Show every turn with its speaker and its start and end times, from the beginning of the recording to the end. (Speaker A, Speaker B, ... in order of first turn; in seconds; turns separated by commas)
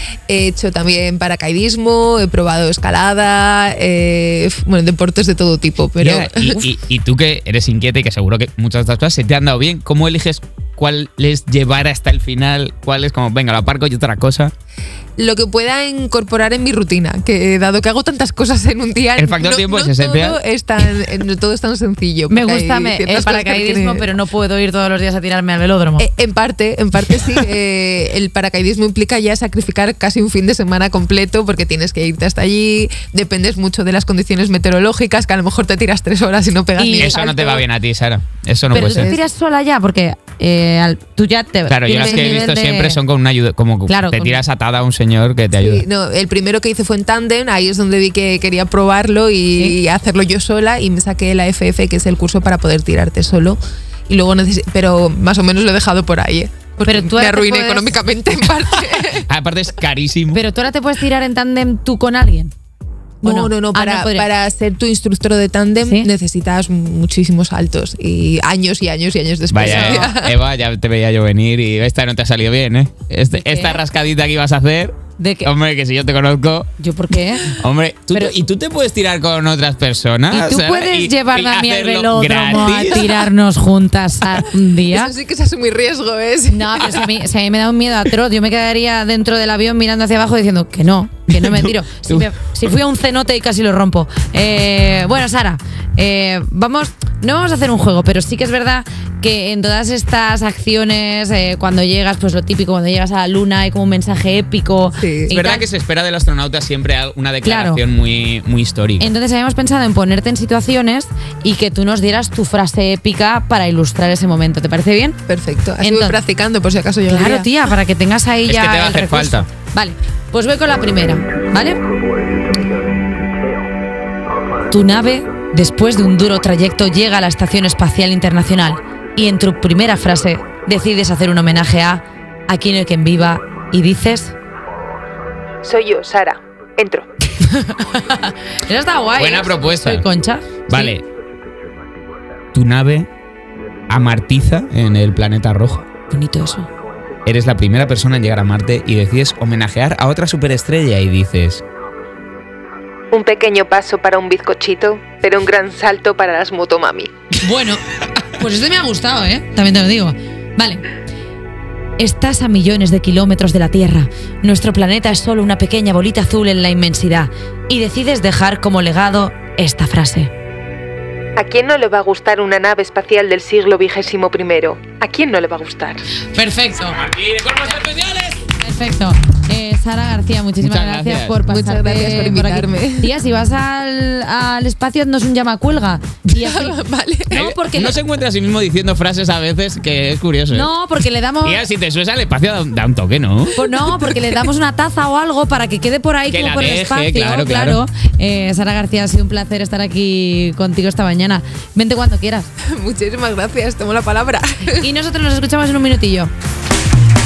Speaker A: 0.3-6.6, Speaker B: 6.0-14.5, Speaker A: 15.2-24.1, Speaker B: 19.2-20.4, Speaker C: 22.3-26.1, Speaker A: 26.0-37.6, Speaker C: 36.8-37.2, Speaker B: 37.0-39.1, Speaker A: 38.7-39.2, Speaker C: 38.7-43.0, Speaker B: 41.7-45.8, Speaker A: 42.0-42.5, Speaker C: 43.9-44.4, Speaker A: 45.6-59.3, Speaker C: 56.8-58.0, Speaker B: 59.3-60.4, Speaker C: 60.3-62.5, Speaker A: 63.2-70.3, Speaker C: 63.2-64.3, Speaker C: 65.8-66.1, Speaker B: 69.5-76.7, Speaker C: 69.6-70.0, Speaker C: 73.4-73.7, Speaker C: 75.2-75.5, Speaker C: 76.8-77.5, Speaker B: 77.6-83.1, Speaker C: 80.3-85.1, Speaker A: 82.7-83.1, Speaker A: 84.9-87.1, Speaker C: 86.5-105.7, Speaker B: 91.3-92.3, Speaker A: 105.0-105.3, Speaker B: 105.3-109.1, Speaker C: 107.4-107.8, Speaker C: 109.0-115.2, Speaker A: 115.3-117.5, Speaker C: 115.8-116.2, Speaker C: 117.1-121.8, Speaker B: 118.5-119.5, Speaker C: 124.7-134.3, Speaker A: 135.6-137.1, Speaker C: 137.4-140.9, Speaker B: 139.2-140.0, Speaker B: 140.7-141.0, Speaker B: 142.5-143.1, Speaker B: 143.9-145.8, Speaker C: 146.1-146.7, Speaker B: 147.2-151.6, Speaker A: 153.1-157.1, Speaker C: 157.4-160.8, Speaker C: 162.0-170.3, Speaker A: 171.4-176.0, Speaker C: 176.3-177.0, Speaker B: 176.9-178.4, Speaker C: 178.5-186.8, Speaker B: 180.6-181.4, Speaker A: 181.5-183.1, Speaker A: 186.3-187.4, Speaker C: 187.3-188.0, Speaker B: 187.3-190.7, Speaker C: 190.5-191.6, Speaker B: 191.4-193.6, Speaker C: 193.6-202.5, Speaker A: 193.7-194.4, Speaker B: 196.3-197.8, Speaker A: 202.7-204.8, Speaker C: 204.8-206.3